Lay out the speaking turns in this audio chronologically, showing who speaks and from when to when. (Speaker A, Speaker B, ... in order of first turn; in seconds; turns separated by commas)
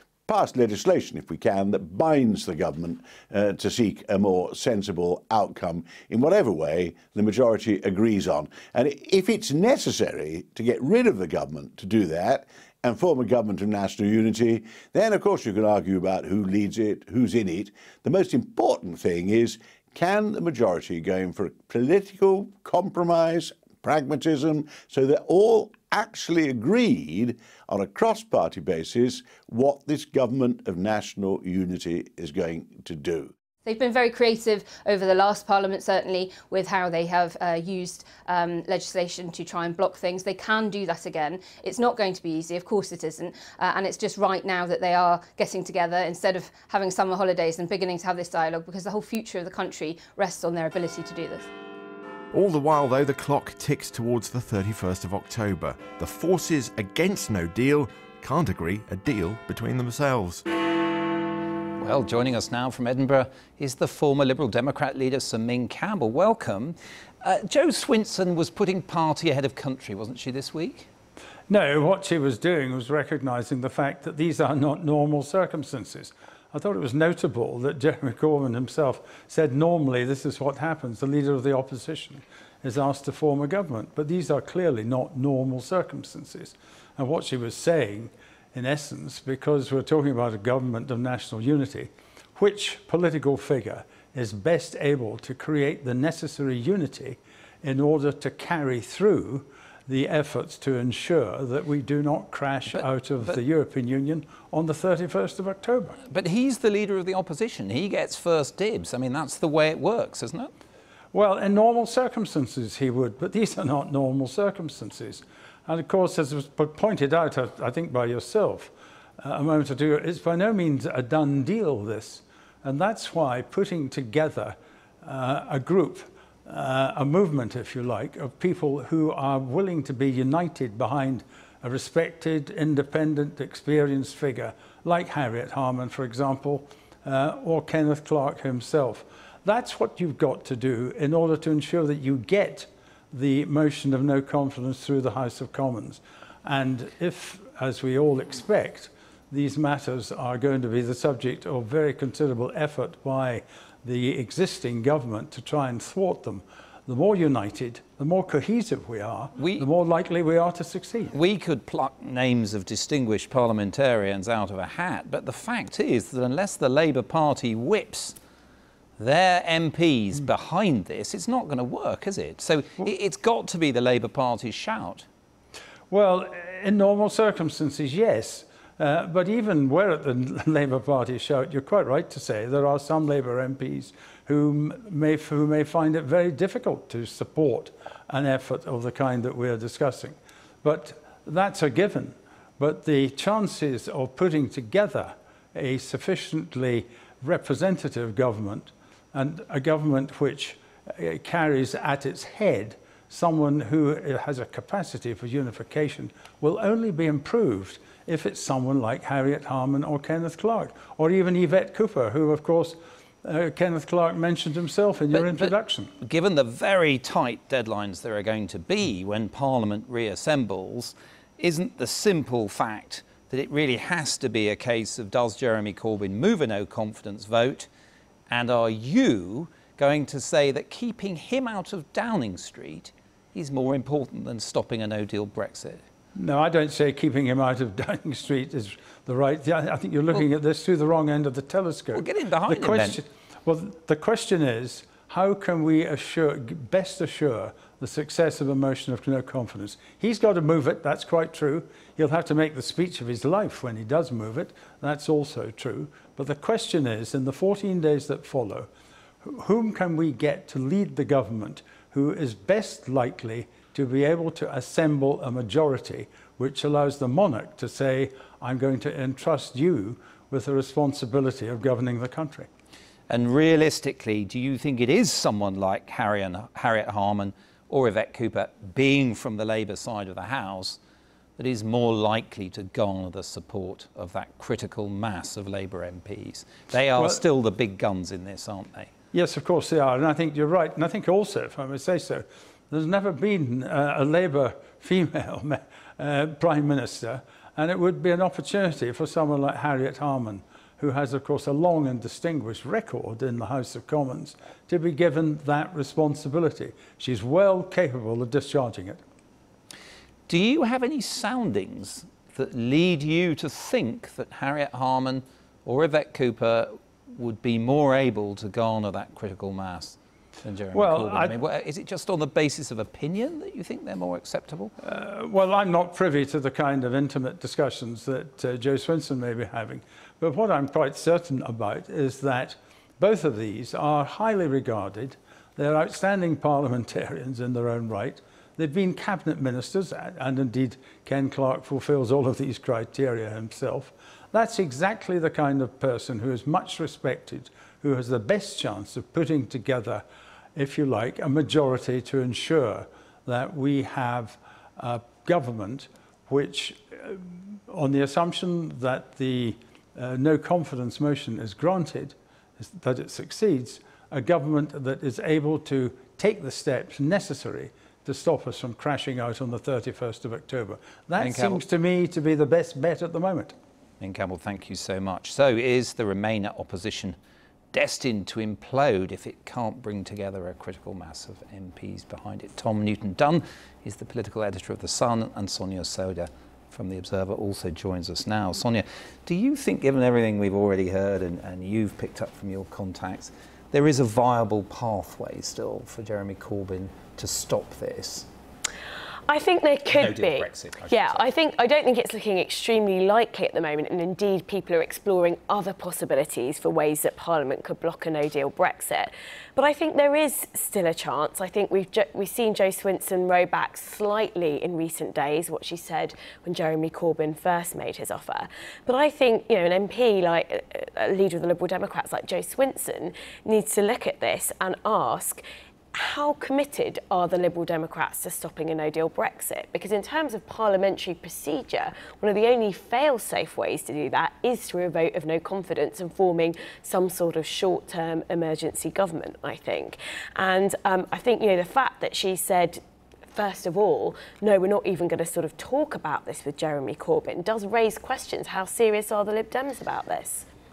Speaker A: 0.3-33.3, Speaker B: 33.6-51.5, Speaker C: 52.3-60.4, Speaker D: 61.8-70.9, Speaker E: 71.5-106.0, Speaker D: 102.7-103.4, Speaker D: 106.1-110.5, Speaker E: 111.1-161.1, Speaker D: 159.4-159.6, Speaker D: 161.1-168.2, Speaker D: 169.0-175.0, Speaker E: 175.9-215.9, Speaker D: 215.1-227.7, Speaker D: 228.3-235.8, Speaker E: 236.1-258.7, Speaker D: 241.9-243.0, Speaker E: 259.2-272.5, Speaker D: 273.1-280.8, Speaker D: 281.4-288.9, Speaker E: 286.9-287.2, Speaker E: 289.1-309.0, Speaker D: 310.3-324.7, Speaker E: 320.7-321.4, Speaker E: 324.8-350.0, Speaker E: 350.6-373.5, Speaker D: 371.2-371.6, Speaker D: 374.0-377.1, Speaker D: 377.7-398.3, Speaker F: 399.3-425.4, Speaker D: 399.9-401.3, Speaker F: 425.9-442.8, Speaker F: 443.3-450.4